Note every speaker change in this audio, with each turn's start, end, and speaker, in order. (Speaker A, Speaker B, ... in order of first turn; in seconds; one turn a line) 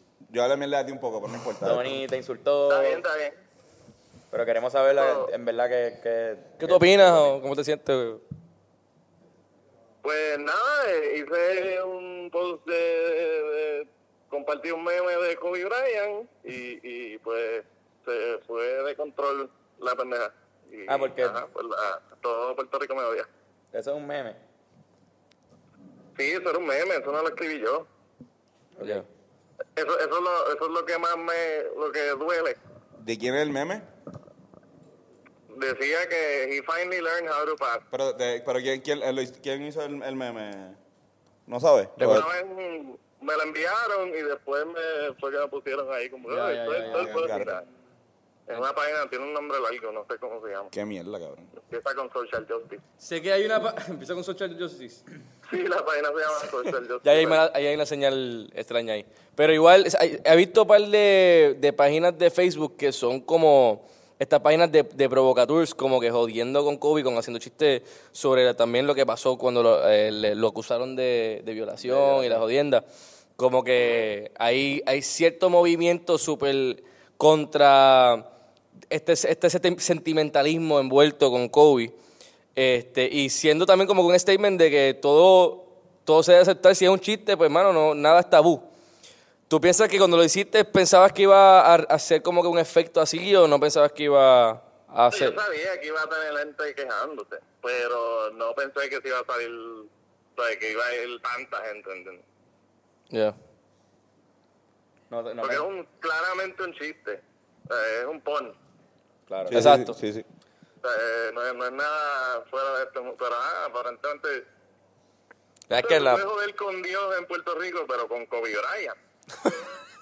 Speaker A: 0.3-2.0
Speaker B: 1.6-3.0
Speaker C: 2.7-3.4
Speaker B: 4.3-7.3
Speaker C: 5.0-5.3
Speaker D: 6.6-8.2
Speaker C: 10.0-23.3
Speaker B: 20.9-21.4
Speaker B: 23.7-24.4
Speaker C: 26.1-27.9
Speaker B: 28.8-29.0
Speaker C: 29.8-32.6
Speaker A: 33.0-33.8
Speaker C: 35.5-37.8
Speaker A: 37.9-40.8
Speaker A: 41.5-42.3
Speaker C: 42.0-47.6
Speaker D: 46.3-47.3
Speaker A: 46.9-47.6
Speaker C: 48.5-50.7
Speaker A: 50.7-51.5
Speaker C: 51.6-52.8
Speaker D: 53.0-55.0
Speaker C: 55.5-57.4
Speaker D: 57.0-72.8
Speaker B: 72.0-72.4
Speaker D: 73.4-78.2
Speaker D: 78.9-81.9
Speaker D: 82.5-88.6
Speaker D: 89.5-95.4
Speaker C: 95.1-102.2
Speaker B: 105.1-105.7
Speaker C: 105.4-108.5
Speaker B: 109.3-109.6
Speaker A: 109.5-110.2
Speaker D: 109.5-109.9
Speaker C: 110.8-114.4
Speaker B: 115.7-116.2
Speaker C: 115.7-119.0